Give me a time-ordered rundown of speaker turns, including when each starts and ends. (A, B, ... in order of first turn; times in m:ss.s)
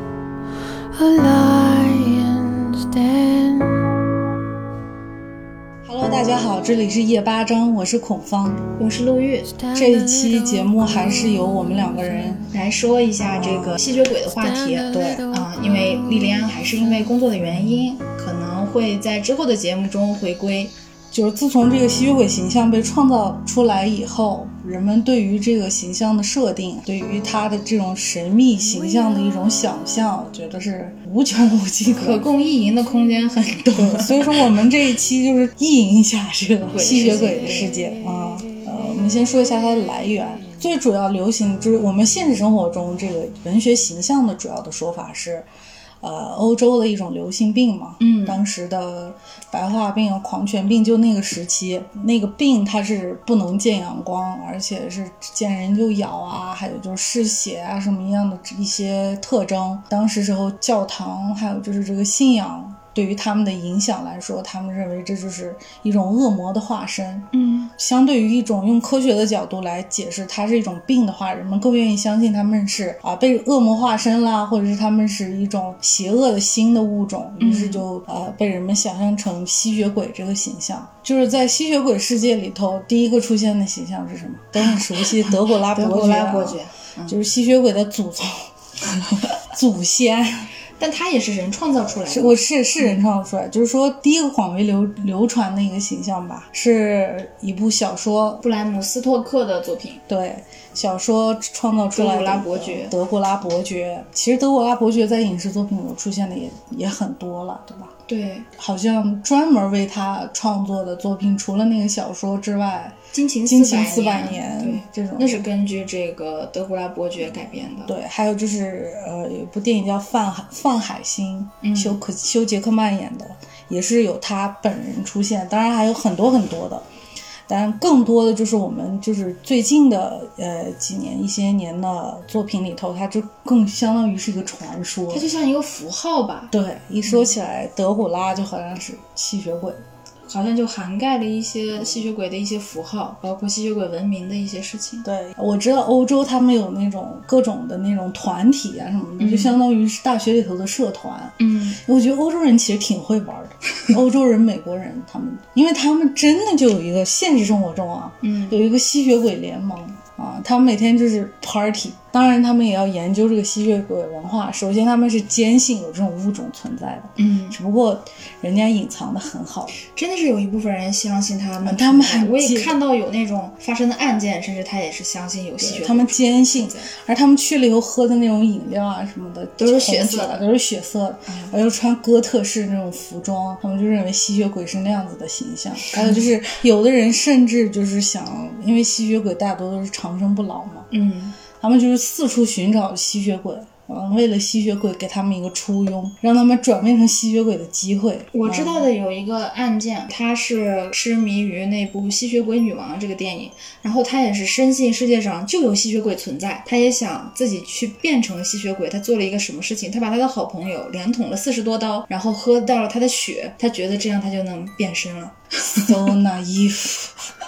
0:00.9-0:03.9 A
0:05.8-0:08.6 B
0:08.8-0:09.5 C
0:09.5-0:12.5 A
0:09.7-0:12.4 B
0:12.5-0:20.7 C
0:13.3-0:13.8 B
0:14.4-0:17.1 A
0:14.9-0:15.2 B
0:17.4-0:17.8 B
0:21.1-0:32.3 B
0:32.0-0:34.4 C
0:33.7-0:45.5 B
0:36.7-0:37.7 C
0:46.0-1:28.5 B
0:48.0-0:48.4 C
1:07.3-1:07.7 C
1:17.4-1:17.8 C
1:24.7-1:27.2 C
1:29.2-1:30.5 B
1:30.8-1:33.0 C
1:32.1-1:38.4 B
1:38.4-1:40.0 C
1:40.1-1:47.9 B
1:41.9-1:42.9 C
1:48.1-1:48.5 C
1:48.6-1:55.4 B
1:53.1-1:57.9 C
1:57.8-2:06.8 B
2:01.6-2:02.0 C
2:07.5-2:15.3 B
2:15.1-2:16.5 C
2:16.5-2:19.8 B
2:17.0-2:17.3 C
2:20.3-2:25.1 C
2:25.0-2:49.7 B
2:29.2-2:29.6 C
2:31.4-2:31.8 C
2:38.2-2:38.6 C
2:47.2-2:47.6 C
2:49.8-2:56.9 C
2:51.6-2:52.8 B
2:55.6-3:10.9 B
2:59.6-3:00.4 C
3:01.3-3:01.5 C
3:05.9-3:06.2 C
3:10.9-3:11.4 C
3:11.6-3:18.9 B
3:18.3-3:36.0 C
3:35.8-3:37.3 B